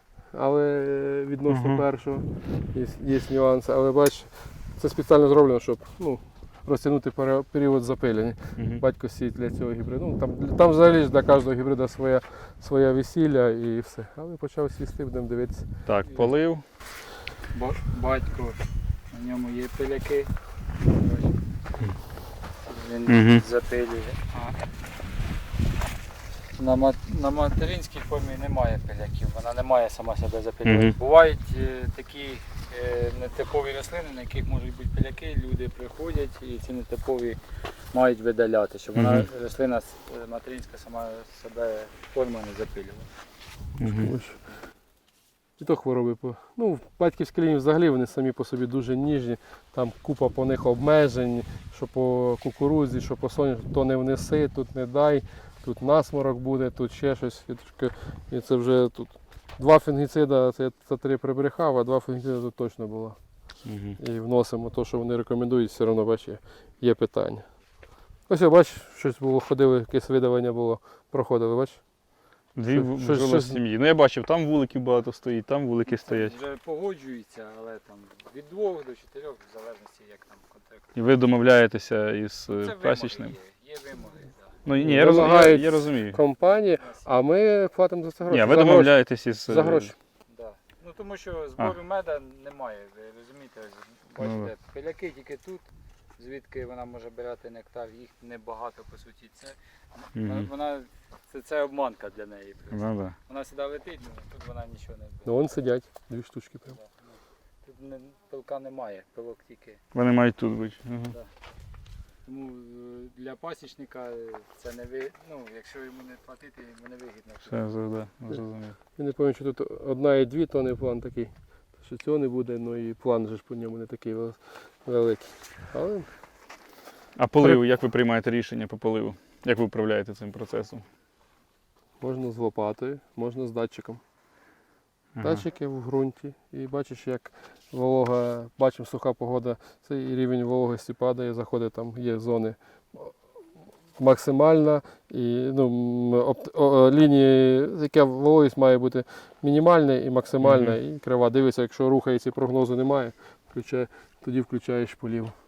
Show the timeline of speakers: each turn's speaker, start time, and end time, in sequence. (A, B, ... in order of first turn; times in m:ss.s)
0:00.3-0:15.7 A
0:01.5-0:01.8 B
0:08.6-0:08.8 B
0:15.8-0:16.6 B
0:17.5-0:21.4 C
0:22.6-0:24.5 C
0:23.1-0:23.4 B
0:26.5-0:37.4 C
0:30.6-0:30.9 B
0:37.9-0:43.1 C
0:38.9-0:39.3 B
0:43.8-0:44.1 B
0:43.8-0:44.4 A
0:45.6-1:03.2 A
1:03.6-1:04.0 B
1:04.0-1:07.4 A
1:08.3-1:11.8 A
1:12.6-1:16.3 B
1:12.7-1:13.6 A
1:16.0-1:20.9 C
1:21.0-1:23.3 B
1:22.5-1:24.6 C
1:24.6-1:26.2 B
1:24.8-1:30.0 A
1:26.8-1:27.0 C
1:28.2-1:29.9 B
1:30.3-1:35.6 C
1:34.2-1:34.5 B
1:36.2-1:45.3 C
1:40.2-1:40.5 B
1:42.7-1:43.2 B
1:45.2-1:46.8 A
1:46.7-1:47.0 C
1:47.6-1:49.8 C
1:49.9-1:51.1 B
1:52.2-1:57.6 C
1:57.4-1:58.8 B
1:59.0-2:06.1 A
2:07.2-2:10.8 B
2:12.0-2:14.0 A
2:15.2-2:15.4 B
2:15.2-2:23.1 A
2:24.0-2:35.3 A
2:30.4-2:30.8 B